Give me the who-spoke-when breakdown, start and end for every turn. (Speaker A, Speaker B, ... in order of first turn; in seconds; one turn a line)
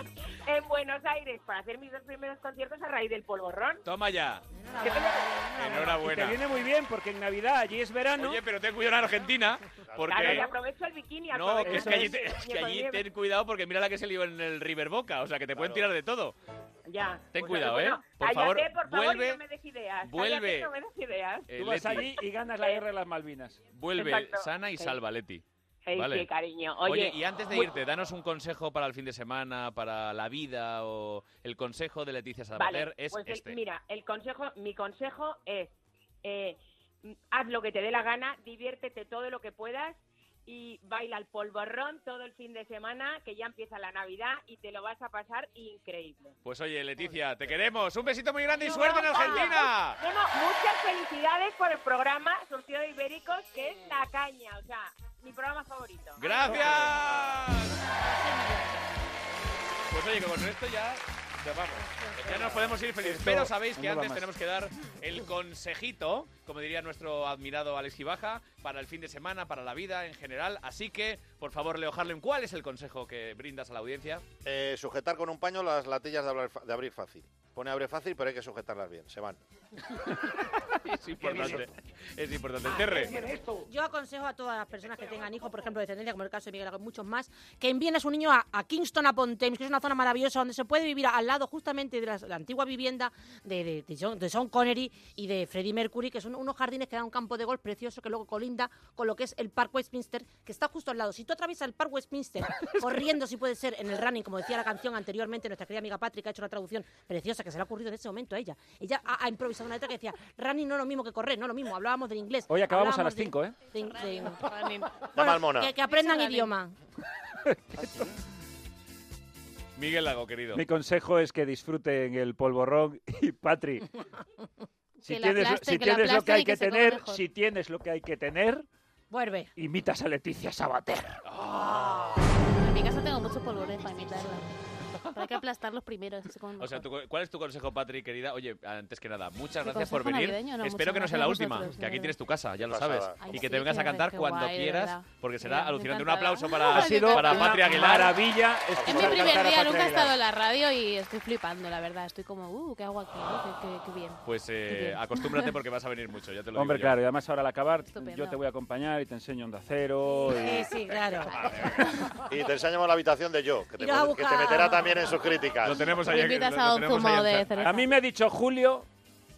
Speaker A: 0.5-3.8
Speaker B: 3.8-6.4
Speaker C: 4.5-6.0
Speaker D: 5.8-8.4
Speaker B: 8.2-10.5
Speaker E: 9.9-10.5
Speaker A: 10.0-13.1
Speaker B: 11.3-16.3
Speaker D: 11.6-12.2
Speaker E: 15.5-15.9
Speaker A: 16.9-21.5
Speaker B: 17.3-19.4
Speaker B: 20.0-20.7
Speaker B: 21.5-22.1
Speaker D: 21.6-23.6
Speaker A: 22.6-22.8
Speaker B: 23.7-26.3
Speaker A: 23.9-25.0
Speaker A: 25.9-27.7
Speaker B: 26.8-33.6
Speaker A: 32.5-35.7
Speaker A: 36.2-46.3
Speaker B: 46.4-50.0
Speaker A: 48.6-56.8
Speaker B: 56.2-57.8
Speaker C: 57.8-58.7
Speaker B: 59.9-74.2
Speaker C: 62.0-62.4
Speaker D: 62.4-64.3
Speaker E: 74.4-79.4
Speaker B: 80.8-83.3
Speaker C: 82.7-116.7
Speaker D: 112.5-113.6
Speaker F: 113.9-115.0
Speaker E: 115.1-115.7
Speaker F: 115.8-116.5
Speaker D: 117.5-117.9
Speaker B: 119.8-120.6
Speaker D: 120.5-123.9
Speaker D: 125.0-128.7
Speaker F: 125.0-127.2
Speaker C: 129.1-129.5
Speaker D: 129.6-131.2
Speaker B: 131.2-132.3
Speaker F: 132.6-134.4
Speaker F: 135.1-136.9
Speaker B: 136.6-148.2
Speaker F: 139.6-142.2
Speaker E: 142.7-143.4
Speaker F: 143.2-147.8
Speaker D: 146.7-150.2
Speaker F: 148.8-155.6
Speaker E: 148.8-149.3
Speaker B: 154.2-157.0
Speaker D: 156.5-160.7
Speaker F: 157.9-158.4
Speaker C: 160.2-161.4
Speaker B: 160.9-162.0
Speaker E: 162.3-165.8
Speaker C: 163.8-165.1
Speaker B: 165.6-167.6
Speaker F: 165.8-167.9
Speaker D: 167.6-168.9